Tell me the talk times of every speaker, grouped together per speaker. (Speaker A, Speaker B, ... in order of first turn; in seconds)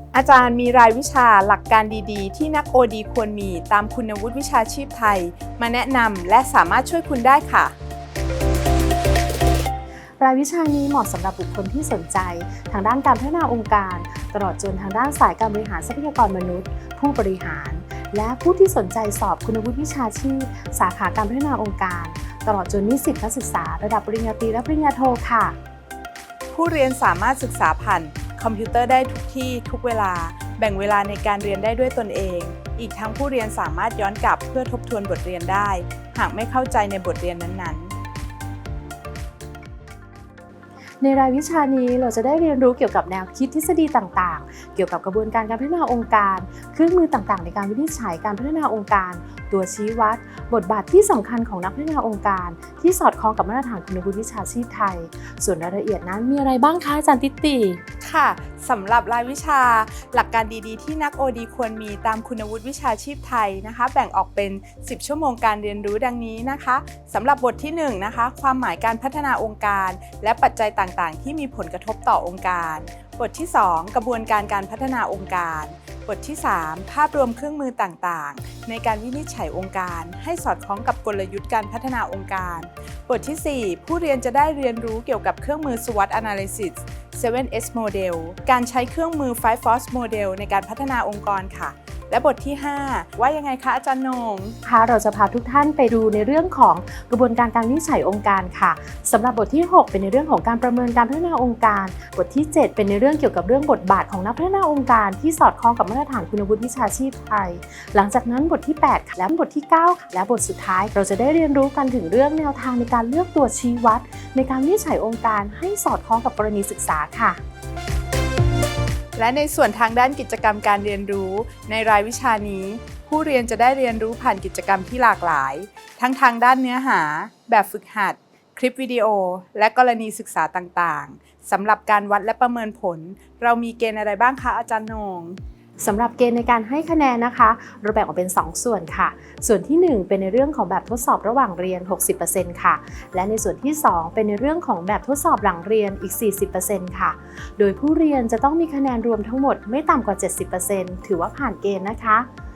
Speaker A: 0.1-7.7, 26.5-37.9, 58.0-94.5, 119.2-135.4
Speaker B: 10.2-25.6, 41.0-57.8, 94.6-117.4, 135.8-152.3